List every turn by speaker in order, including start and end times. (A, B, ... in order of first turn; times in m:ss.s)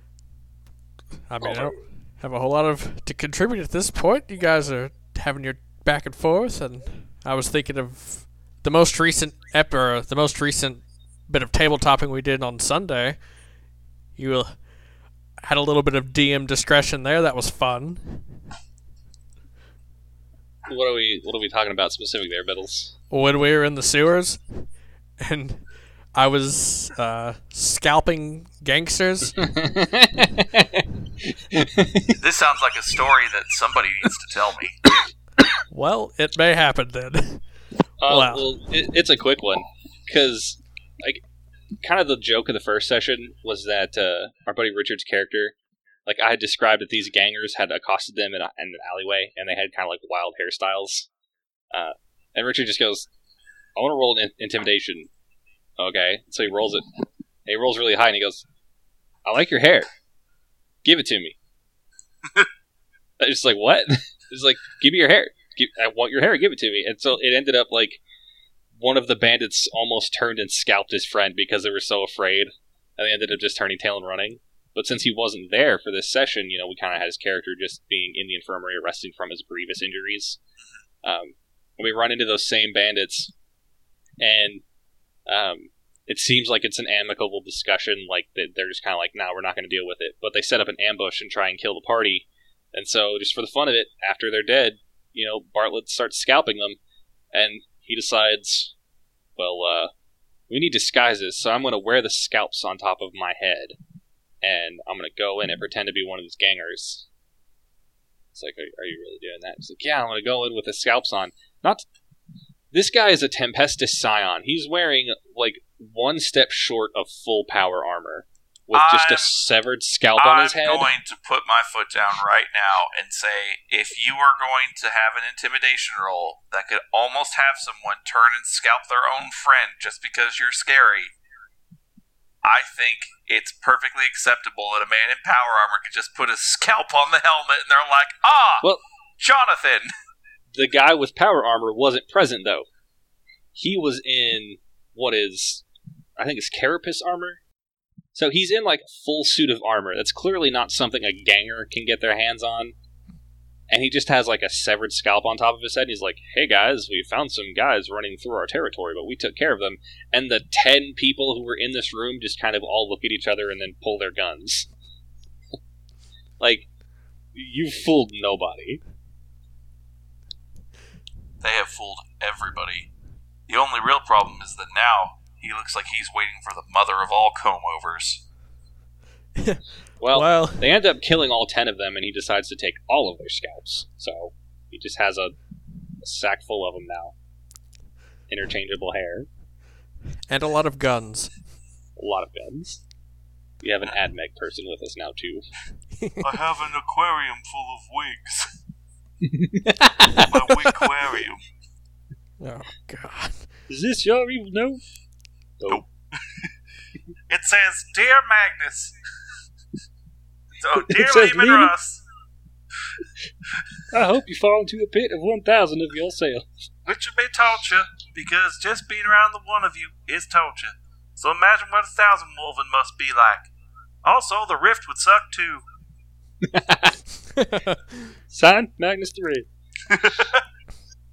0:01.3-0:13.2 A
0:01.4-0:01.8 B
0:14.2-0:14.6 A
0:15.4-0:18.3 A
0:20.7-0:22.9 B
0:23.1-0:24.6 A
0:25.2-0:29.4 A
0:29.4-0:32.2 B
0:32.2-0:34.8 C
0:35.7-0:37.4 A
0:38.0-0:41.2 B
0:38.1-0:38.4 A
0:41.8-0:45.5 B
0:46.1-0:51.1 B
0:51.7-0:53.1 B
0:53.8-0:55.1 B
0:55.8-0:58.5 B
0:59.3-0:59.9 B
1:00.8-1:01.4 B
1:03.2-1:08.0 B
1:08.8-1:20.4 B
1:21.0-1:23.3 B
1:24.2-1:24.6 B
1:25.3-1:36.8 B
1:37.3-1:38.7 B
1:39.4-1:39.9 B
1:40.5-1:43.8 B
1:44.4-1:47.1 B
1:48.3-1:51.9 B
1:52.7-2:00.9 B
1:58.7-1:59.3 C
2:00.2-2:11.1 C
2:12.4-2:18.7 C
2:19.2-2:19.9 C
2:20.6-2:22.7 B
2:23.5-2:25.6 B
2:26.2-2:27.4 B
2:28.1-2:32.8 B
2:33.7-2:44.7 B
2:46.4-2:46.7 B
2:47.4-2:48.8 B
2:51.4-2:52.9 C
2:53.5-2:58.2 C
2:59.4-2:59.6 A
3:00.0-3:05.4 B
3:00.1-3:00.6 A
3:06.0-3:07.2 B
3:08.3-3:09.3 B
3:10.3-3:11.4 A
3:12.0-3:12.8 B
3:13.6-3:15.5 B
3:16.0-3:16.3 A
3:16.2-3:18.5 C
3:19.2-3:20.3 B
3:20.3-3:21.4 C
3:22.4-3:23.5 A
3:23.7-3:24.8 B
3:25.6-3:25.8 B
3:25.7-3:26.5 C
3:27.3-3:29.0 C
3:30.6-3:32.0 C
3:30.8-3:31.7 B
3:33.9-3:36.5 B
3:36.9-3:43.5 C
3:44.0-3:45.6 C
3:46.4-3:47.0 B
3:47.3-3:48.1 A
3:48.3-3:49.5 B
3:49.9-3:50.4 C